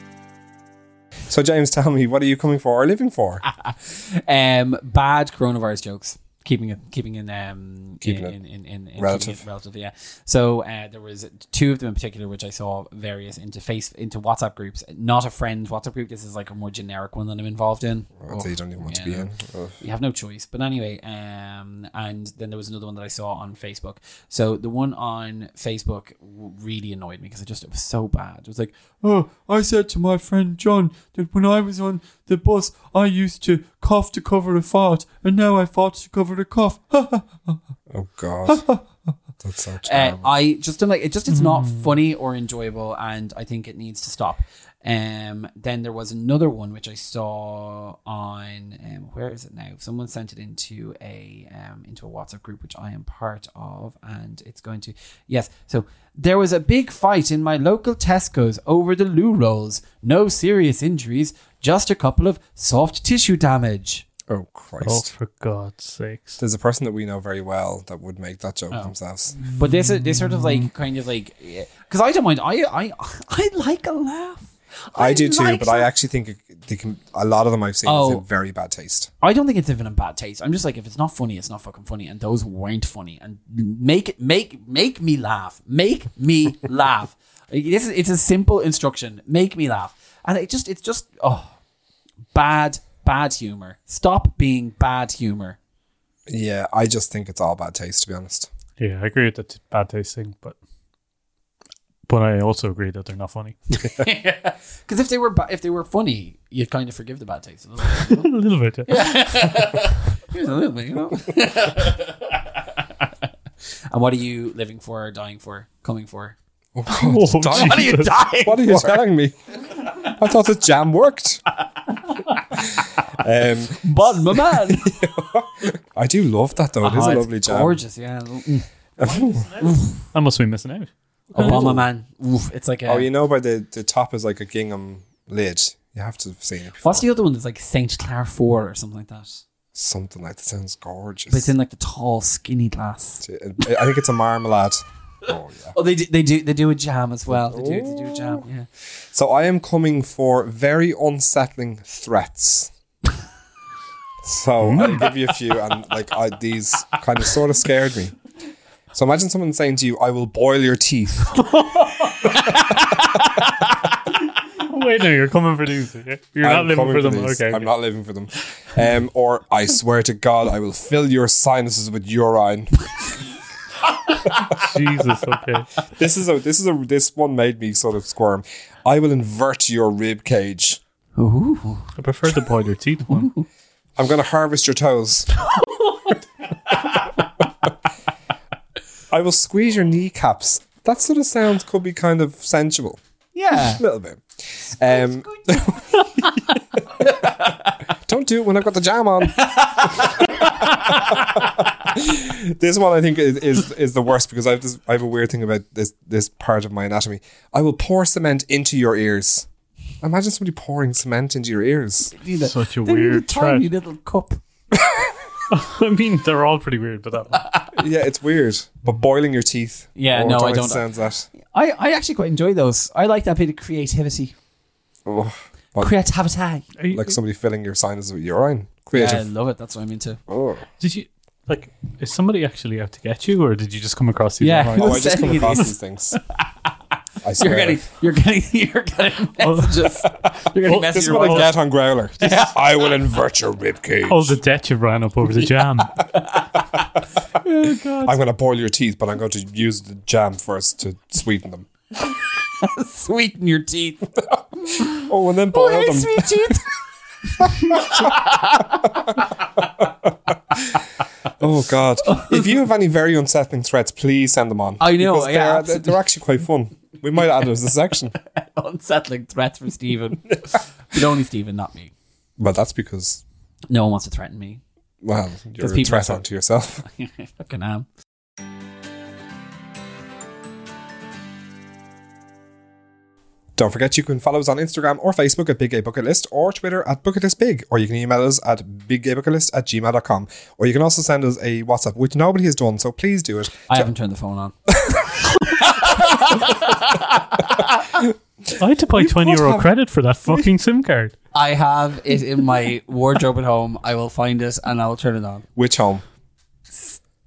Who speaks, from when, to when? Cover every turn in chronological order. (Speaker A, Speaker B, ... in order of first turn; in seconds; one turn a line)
Speaker A: 1.3-3.4
Speaker B: 3.4-37.6
Speaker A: 8.0-8.4
Speaker A: 9.0-9.4
Speaker A: 18.2-19.8
Speaker A: 37.9-38.8
Speaker B: 38.5-39.0
Speaker A: 39.4-40.3
Speaker B: 39.9-64.1
Speaker C: 41.3-41.9
Speaker A: 64.3-65.1
Speaker C: 64.8-66.4
Speaker A: 66.4-69.5
Speaker B: 68.7-75.9
Speaker C: 69.5-70.6
Speaker A: 75.0-79.1
Speaker B: 77.8-78.2
Speaker B: 79.2-91.6
Speaker B: 92.3-95.6
Speaker A: 96.3-98.5
Speaker C: 98.8-100.6
Speaker C: 102.1-103.6
Speaker B: 103.7-113.1
Speaker C: 108.1-109.5
Speaker B: 113.9-116.4
Speaker A: 116.8-119.4
Speaker C: 116.9-118.2
Speaker B: 117.5-119.0
Speaker B: 119.8-120.1
Speaker A: 120.0-121.5
Speaker B: 122.5-122.9
Speaker A: 122.5-127.8
Speaker B: 123.8-125.0
Speaker B: 126.8-128.7
Speaker A: 129.0-129.5
Speaker C: 129.2-131.8
Speaker B: 129.6-130.1
Speaker B: 131.3-133.1
Speaker A: 131.4-131.9
Speaker A: 132.9-137.1
Speaker B: 136.8-139.4
Speaker A: 139.7-141.5
Speaker B: 141.3-143.7
Speaker A: 143.2-145.8
Speaker B: 145.7-148.7
Speaker A: 147.3-152.7
Speaker A: 154.2-158.2
Speaker C: 154.6-155.1
Speaker A: 158.9-161.5
Speaker C: 161.5-162.4
Speaker B: 162.5-163.7
Speaker C: 164.6-167.7
Speaker A: 166.4-173.2
Speaker C: 174.5-175.7
Speaker A: 175.9-180.8
Speaker B: 181.2-181.9
Speaker C: 182.0-183.3
Speaker B: 183.1-183.4
Speaker A: 184.0-185.3
Speaker B: 186.9-187.1
Speaker A: 189.1-193.0
Speaker B: 193.3-193.8
Speaker A: 193.8-197.2
Speaker B: 194.9-196.3
Speaker B: 197.0-197.8
Speaker A: 198.1-209.5
Speaker B: 199.3-201.7
Speaker A: 210.0-212.1
Speaker B: 212.1-214.4
Speaker C: 212.4-213.7
Speaker A: 214.7-215.2
Speaker C: 215.5-217.5
Speaker B: 217.4-217.7
Speaker A: 217.7-221.3
Speaker B: 220.0-224.3
Speaker A: 225.1-225.9
Speaker B: 225.8-226.8
Speaker A: 226.9-229.3
Speaker B: 228.9-230.2
Speaker A: 230.3-230.7
Speaker C: 230.8-235.7
Speaker B: 234.4-235.7
Speaker A: 234.7-236.2
Speaker A: 237.2-237.8
Speaker B: 237.4-241.5
Speaker C: 239.4-239.9
Speaker C: 240.7-241.5
Speaker A: 240.7-244.4
Speaker B: 242.2-242.6
Speaker C: 244.1-246.1
Speaker B: 246.2-246.9
Speaker B: 247.4-248.2
Speaker A: 248.0-251.7
Speaker B: 252.4-259.7
Speaker A: 254.3-256.6
Speaker A: 257.4-258.2
Speaker A: 259.6-260.6
Speaker A: 261.4-268.1
Speaker B: 262.1-262.4
Speaker B: 264.8-266.0
Speaker B: 268.2-271.9
Speaker A: 272.4-273.2
Speaker B: 273.7-274.6
Speaker A: 275.0-276.9
Speaker B: 275.6-276.2
Speaker B: 276.9-277.9
Speaker A: 283.6-293.9
Speaker B: 293.7-297.8
Speaker A: 294.8-295.1
Speaker A: 295.8-296.6
Speaker A: 298.0-299.7
Speaker C: 298.6-301.2
Speaker B: 301.3-305.4
Speaker A: 305.6-306.0